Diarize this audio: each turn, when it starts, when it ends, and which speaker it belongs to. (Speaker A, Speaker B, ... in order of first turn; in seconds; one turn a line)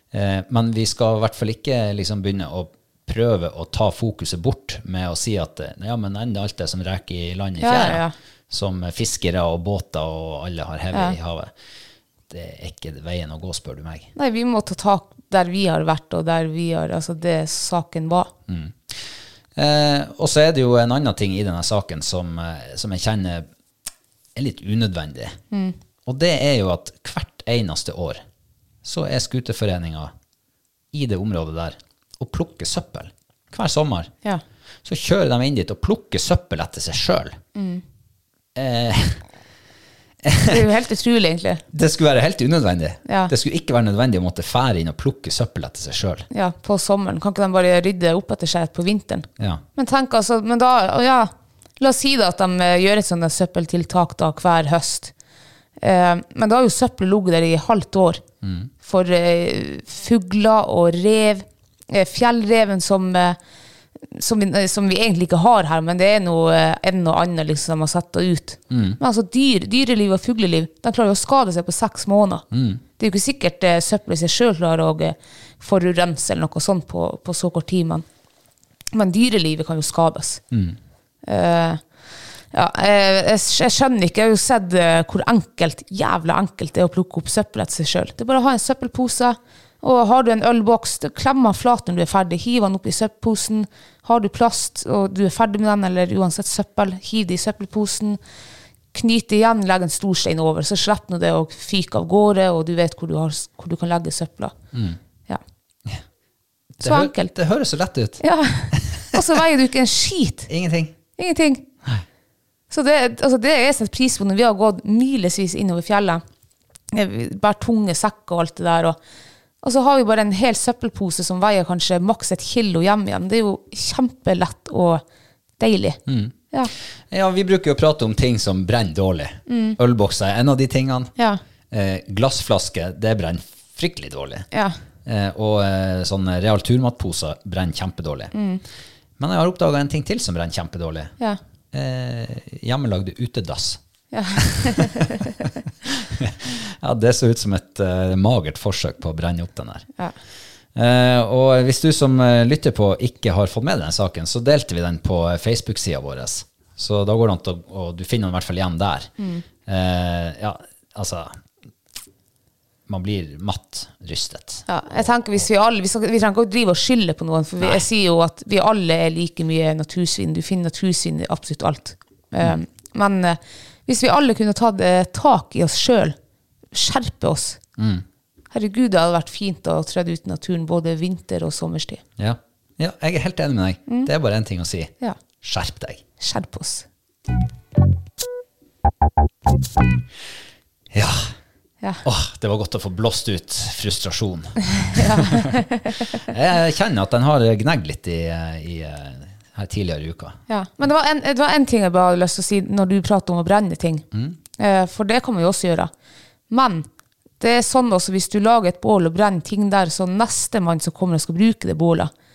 Speaker A: 0.1-11.5
Speaker B: 7.6-8.1
Speaker A: 12.3-14.1
Speaker B: 14.2-18.3
Speaker A: 18.5-23.5
Speaker A: 24.4-25.4
Speaker A: 26.1-28.2
Speaker A: 28.8-30.1
Speaker A: 30.9-34.1
Speaker A: 34.8-37.4
Speaker B: 37.5-37.8
Speaker A: 38.5-39.2
Speaker A: 40.2-40.7
Speaker B: 40.5-41.6
Speaker A: 41.7-46.3
Speaker B: 43.1-43.3
Speaker B: 46.3-55.1
Speaker B: 55.8-58.2
Speaker A: 58.4-58.7
Speaker B: 58.8-63.4
Speaker B: 64.1-72.5
Speaker A: 68.7-69.0
Speaker A: 72.5-72.8
Speaker B: 73.0-78.1
Speaker B: 78.9-80.4
Speaker A: 80.5-80.8
Speaker B: 81.2-81.8
Speaker B: 82.5-98.2
Speaker B: 98.9-104.5
Speaker A: 104.7-105.0
Speaker A: 106.8-109.2
Speaker B: 106.8-107.3
Speaker B: 108.2-110.5
Speaker A: 110.5-111.0
Speaker B: 111.2-111.7
Speaker B: 112.7-116.2
Speaker B: 116.9-119.0
Speaker B: 119.6-125.0
Speaker B: 125.6-126.0
Speaker A: 126.1-126.3
Speaker A: 127.1-131.1
Speaker B: 129.5-129.8
Speaker A: 131.7-134.5
Speaker A: 135.1-138.3
Speaker B: 138.3-138.6
Speaker A: 139.2-141.2
Speaker A: 141.7-143.8
Speaker B: 144.1-145.3
Speaker A: 144.3-145.0
Speaker A: 145.8-149.9
Speaker A: 150.8-159.1
Speaker B: 159.2-159.4
Speaker A: 159.7-161.4
Speaker A: 162.9-165.4
Speaker B: 164.7-176.2
Speaker A: 167.6-167.8
Speaker B: 176.7-177.6
Speaker A: 177.8-178.1
Speaker B: 178.5-182.0
Speaker A: 182.2-186.0
Speaker B: 186.2-186.9
Speaker A: 190.9-191.3
Speaker A: 192.0-195.5
Speaker B: 194.8-196.2
Speaker A: 196.1-200.4
Speaker B: 200.5-204.1
Speaker B: 204.6-205.9
Speaker B: 206.5-206.9
Speaker B: 207.4-212.1